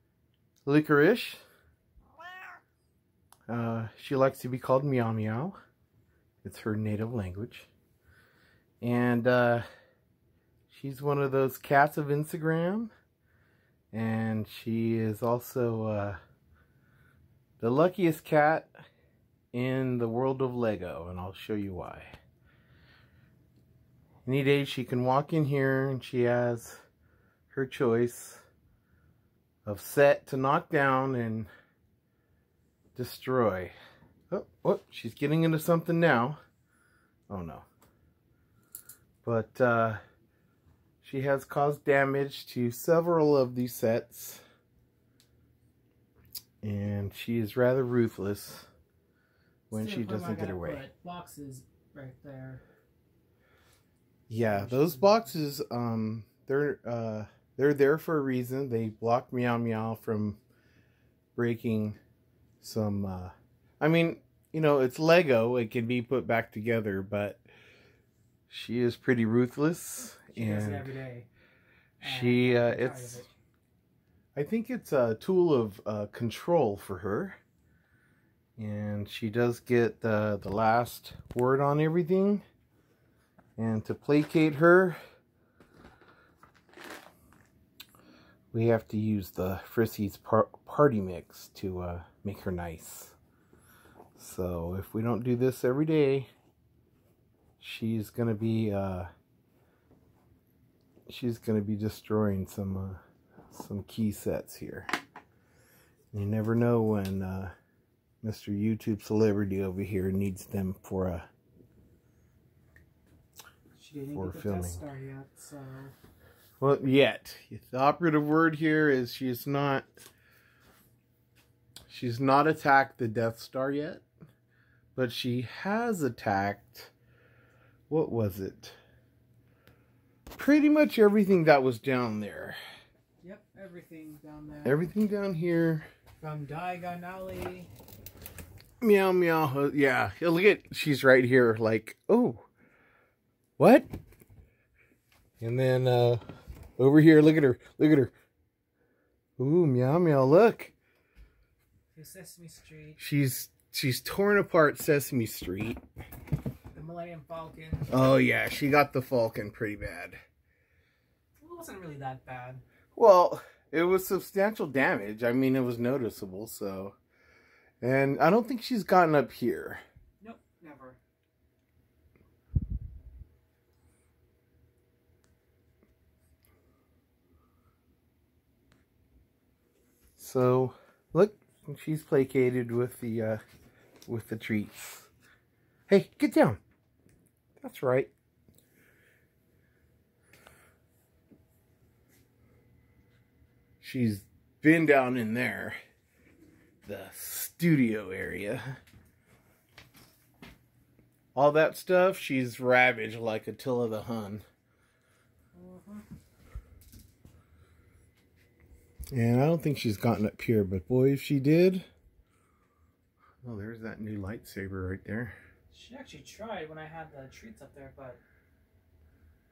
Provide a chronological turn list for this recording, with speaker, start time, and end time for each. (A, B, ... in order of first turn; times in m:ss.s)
0:00.7-0:01.4 A
0:03.5-0:05.6 A
0:06.4-0:07.7 A
0:08.8-0:09.6 A
0:10.7-0:12.9 A
0:13.9-0:16.2 A
0:17.6-0:18.7 A
0:19.5-0:22.1 A
0:24.3-0:26.8 A
0:27.5-0:28.4 A
0:29.7-0:31.5 A
0:33.0-0:33.7 A
0:34.3-0:36.4 A
0:37.3-0:37.7 A
0:39.2-0:40.0 A
0:41.0-0:44.4 A
0:46.6-0:48.7 A
0:49.7-0:50.9 A
0:49.7-0:52.6 B
0:54.3-1:00.4 A
0:54.5-0:55.4 B
1:01.4-1:02.0 A
1:02.6-1:07.4 A
1:08.5-1:11.0 A
1:10.3-1:11.3 B
1:12.0-1:13.3 B
1:12.0-1:13.2 A
1:14.4-1:17.4 A
1:18.6-1:22.4 A
1:23.6-1:25.0 A
1:28.5-1:33.2 A
1:34.2-1:36.3 A
1:37.6-1:39.1 A
1:41.1-1:43.0 A
1:43.5-1:44.9 A
1:46.1-1:47.5 A
1:48.2-1:51.3 A
1:53.8-1:55.9 B
1:54.1-1:54.8 A
1:56.6-1:59.9 A
2:01.9-2:04.0 A
2:05.0-2:06.9 A
2:07.9-2:08.8 A
2:10.4-2:12.6 A
2:13.2-2:14.8 B
2:14.6-2:15.9 A
2:16.2-2:17.7 B
2:18.8-2:22.4 A
2:23.6-2:23.9 A
2:25.4-2:26.2 A
2:26.8-2:28.1 A
2:29.4-2:30.7 A
2:31.9-2:33.0 B
2:33.0-2:35.8 A
2:36.7-2:37.9 B
2:37.9-2:40.2 A
2:41.4-2:42.6 B
2:42.9-2:47.0 A
2:47.8-2:49.8 A
2:50.2-2:51.0 B
3:00.2-3:03.4 A
3:04.1-3:05.1 A
3:05.9-3:06.6 A
3:07.6-3:08.1 A
3:13.8-3:15.8 A
3:16.8-3:18.8 A
3:21.4-3:24.4 A
3:25.6-3:26.0 B
3:29.1-3:31.9 A
3:33.4-3:35.4 A
3:35.7-3:38.2 B